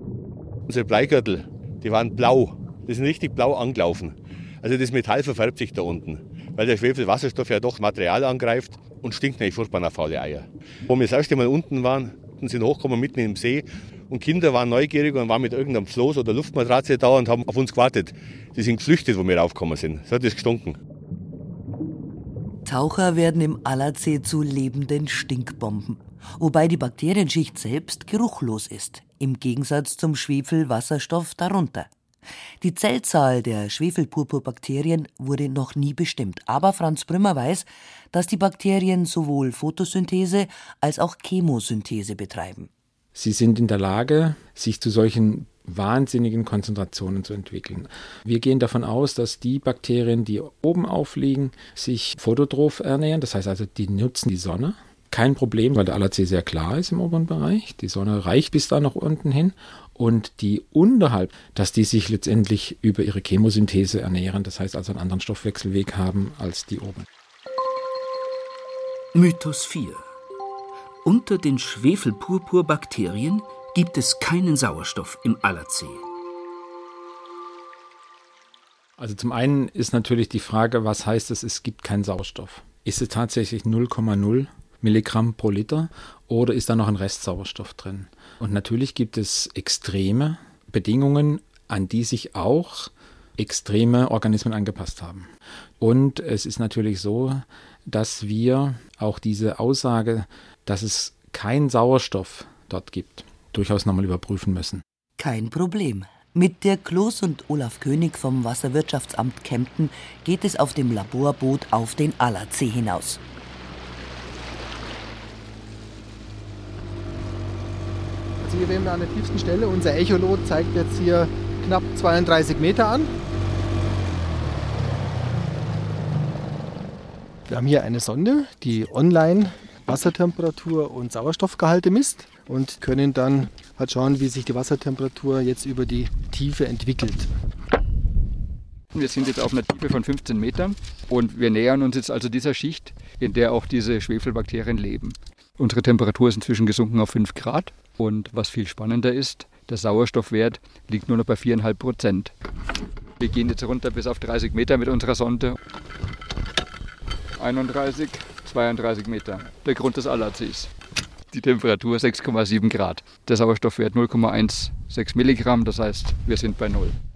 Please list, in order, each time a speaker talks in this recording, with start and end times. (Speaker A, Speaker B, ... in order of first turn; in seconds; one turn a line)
Speaker A: 0.7-20.8
Speaker B: 22.6-31.9
Speaker B: 32.6-42.7
Speaker C: 43.1-67.0
Speaker D: 69.1-70.0
Speaker D: 71.0-76.0
Speaker C: 79.0-104.8
Speaker B: 105.2-113.2
Speaker E: 118.4-123.1
Speaker E: 127.5-137.3
Speaker F: 138.9-152.3
Speaker F: 153.2-155.6
Speaker F: 157.4-160.7
Speaker F: 161.3-166.9